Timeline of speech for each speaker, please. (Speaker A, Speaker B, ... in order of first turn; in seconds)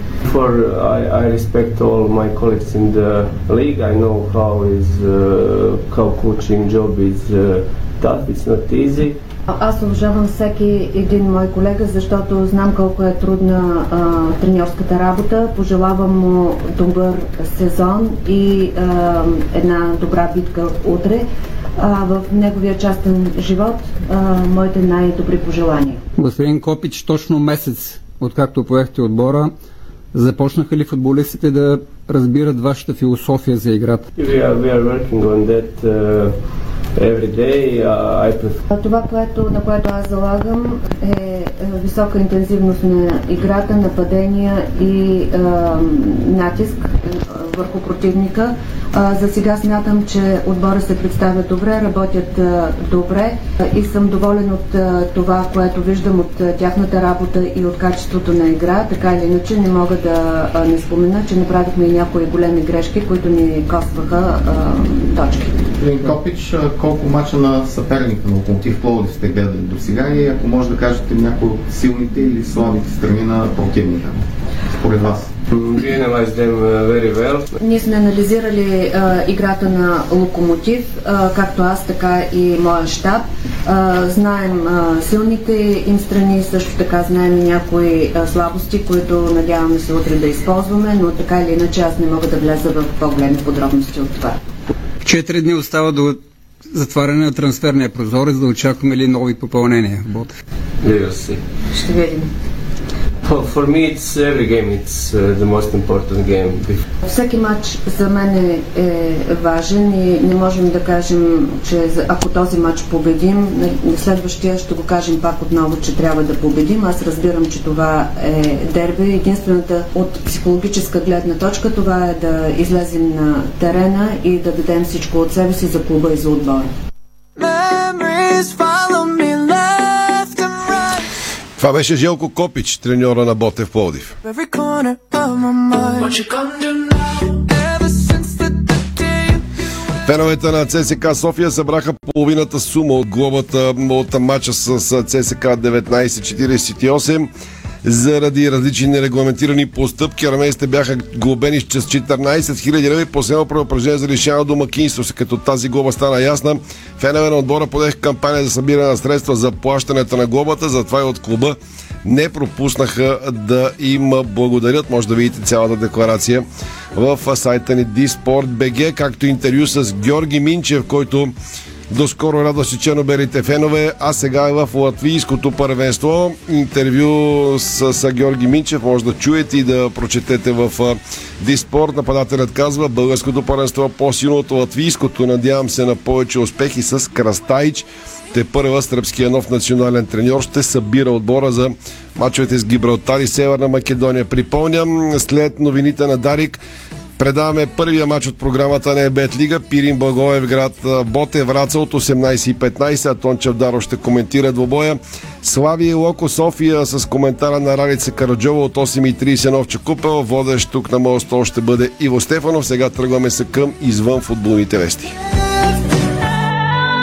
Speaker A: 0.2-9.2, 34.1-36.4, 37.0-38.6, 75.5-77.5, 100.8-101.4, 103.2-106.8
Speaker B: 9.5-26.0, 38.7-65.7, 77.6-94.4, 101.7-102.3, 107.0-126.7
Speaker C: 26.2-29.5, 30.1-34.1, 95.0-96.2, 96.7-100.3
Speaker D: 65.8-74.2, 74.8-75.3
Speaker E: 127.4-131.1, 134.2-139.4
Speaker F: 131.6-134.1, 140.1-147.3, 147.8-171.3, 171.9-196.6, 197.2-215.2